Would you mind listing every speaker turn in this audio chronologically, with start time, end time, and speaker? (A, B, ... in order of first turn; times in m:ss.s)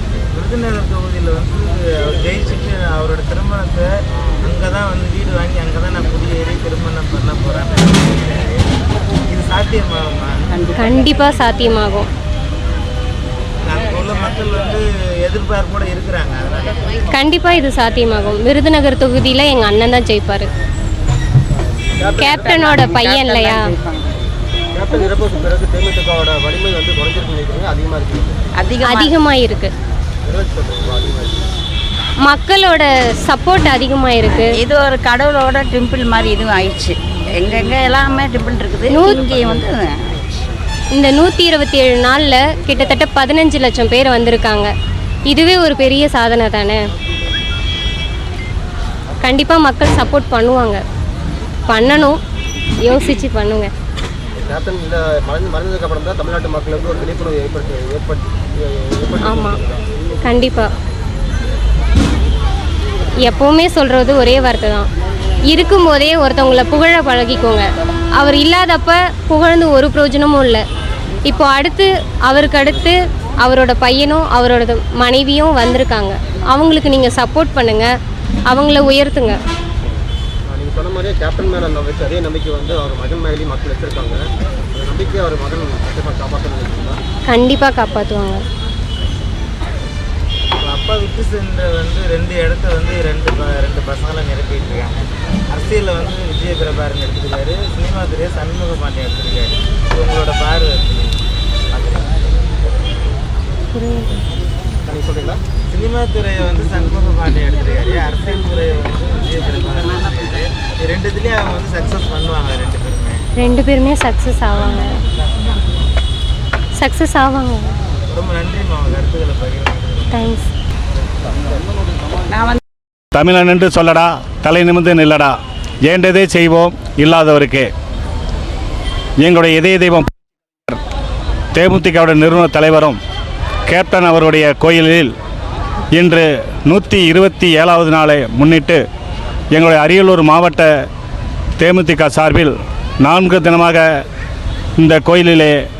0:00.3-0:03.9 A
0:04.4-0:08.6 A
0:09.3-0:10.3 A
0:10.8-0:12.0 B
0:13.6-0:16.8 A
0:17.1-0:20.5 B
0:22.0-0:22.8 C
0:22.1-0:23.7 B
0:22.8-0:23.9 D
0:24.7-0:28.4 C
0:28.6-0:29.1 D
0:28.8-0:29.7 B
0:30.2-0:31.4 C
0:32.2-0:34.5 B
0:34.5-0:39.9 D
0:38.9-0:39.5 B
0:40.9-0:44.7 B
0:45.3-0:46.8 B
0:49.2-0:50.8 B
0:51.7-0:52.2 B
0:52.8-0:53.7 B
0:54.4-0:59.8 C
0:59.2-0:59.6 B
1:00.2-1:00.7 B
1:03.2-1:04.9 B
1:05.5-1:07.6 B
1:08.2-1:10.6 B
1:11.2-1:17.9 B
1:18.5-1:19.4 B
1:20.5-1:24.2 C
1:24.7-1:27.0 C
1:27.3-1:28.4 B
1:30.6-1:35.0 A
1:35.5-1:41.2 A
1:41.7-1:42.1 A
1:43.7-1:44.2 B
1:44.8-1:45.4 C
1:45.7-1:53.2 A
1:53.4-1:54.9 B
1:56.8-1:57.7 B
1:58.1-2:00.3 A
2:00.1-2:00.4 B
2:02.3-2:02.6 D
2:03.1-2:05.3 E
2:05.8-2:07.7 E
2:09.2-2:10.1 E
2:11.5-2:13.0 E
2:13.7-2:15.1 E
2:15.9-2:18.8 E
2:19.5-2:20.7 E
2:21.6-2:23.8 E
2:24.8-2:25.5 E